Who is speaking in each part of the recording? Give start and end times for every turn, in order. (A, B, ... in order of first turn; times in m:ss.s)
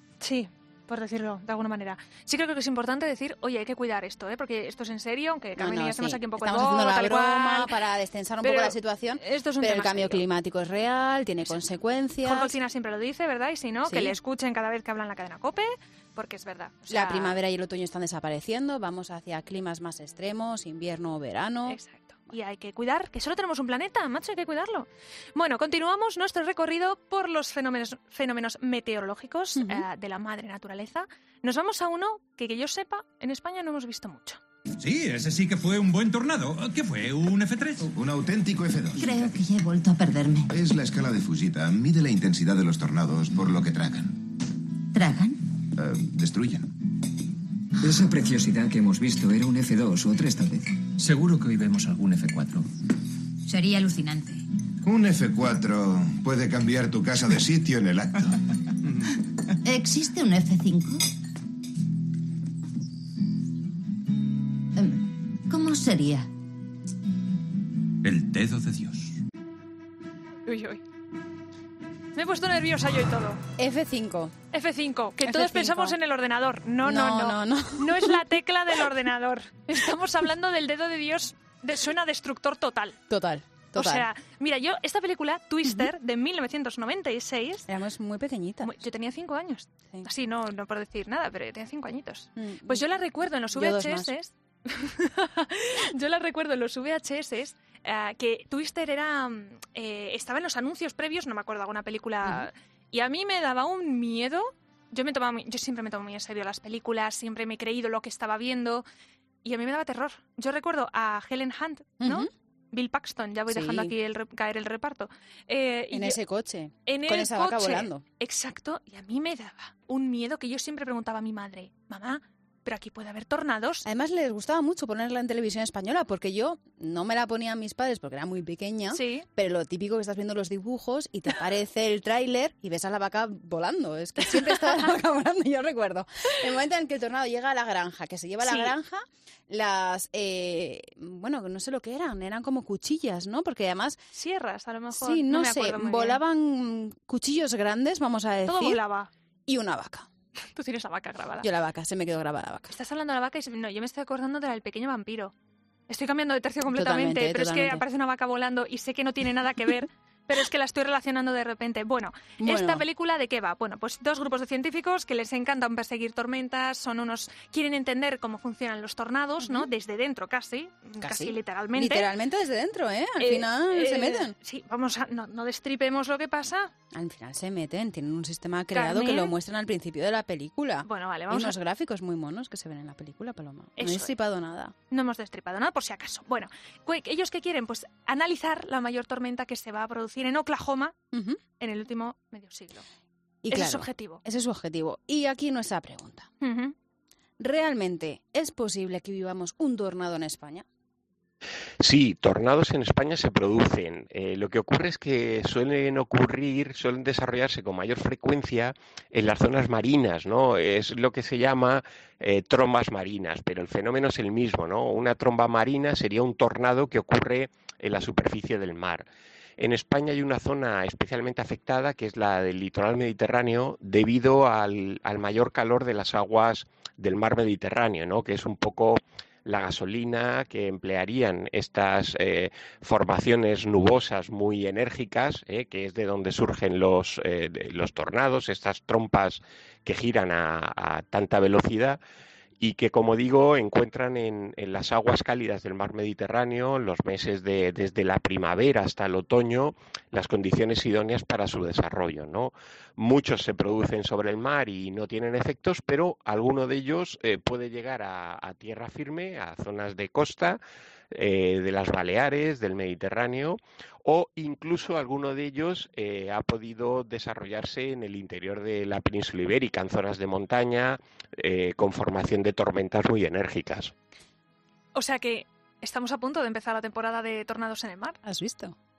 0:00.2-0:07.7 A
0:05.6-0:12.6 B
0:08.4-0:10.2 A
0:12.2-0:17.4 A
0:13.9-0:14.2 B
0:16.9-0:21.8 B
0:21.7-0:34.4 A
0:29.6-0:29.8 B
0:34.8-0:37.9 C
0:37.9-0:39.3 D
0:39.0-0:40.5 E
0:40.5-0:44.2 D
0:44.9-0:45.4 E
0:45.8-0:46.7 D
0:47.8-0:52.7 F
0:53.5-0:54.4 E
0:54.8-0:58.4 D
0:59.6-1:01.1 E
1:04.8-1:06.3 E
1:08.0-1:09.1 F
1:10.5-1:10.8 A
1:12.2-1:13.4 A
1:13.6-1:14.4 B
1:14.5-1:23.0 A
1:15.2-1:16.0 B
1:16.8-1:18.2 B
1:23.1-1:24.1 B
1:23.8-1:27.7 A
1:27.7-1:28.7 B
1:28.6-1:48.8 A
1:32.4-1:32.8 B
1:33.5-1:34.1 B
1:49.4-1:56.2 A
1:52.0-1:52.3 B
1:53.5-1:53.9 B
1:55.9-1:58.0 B
1:56.9-2:03.9 A
2:03.8-2:24.0 B
2:08.9-2:09.3 A
2:18.4-2:18.7 A
2:24.1-2:26.2 A
2:24.9-2:28.8 B
2:28.5-2:29.1 A
2:29.5-2:30.1 B
2:30.5-2:31.5 A
2:31.4-2:32.7 B
2:32.7-2:35.3 A
2:35.9-2:52.1 A
2:36.7-2:37.8 B
2:42.4-2:42.8 B
2:49.4-2:49.7 B
2:51.0-2:54.4 B
2:53.2-2:56.7 A
2:56.9-3:04.8 B
2:58.7-2:59.3 A
3:00.8-3:01.6 A
3:03.8-3:04.2 A
3:04.9-3:11.0 A
3:11.1-3:11.4 B
3:11.6-3:12.8 A
3:13.4-3:16.3 B
3:13.5-3:14.2 A
3:16.4-3:16.8 A
3:17.4-3:20.7 B
3:21.8-3:39.0 G
3:39.6-4:02.0 G
4:02.6-4:20.6 G
4:21.1-4:33.9 G
4:35.0-4:38.2 A
4:38.2-4:38.8 B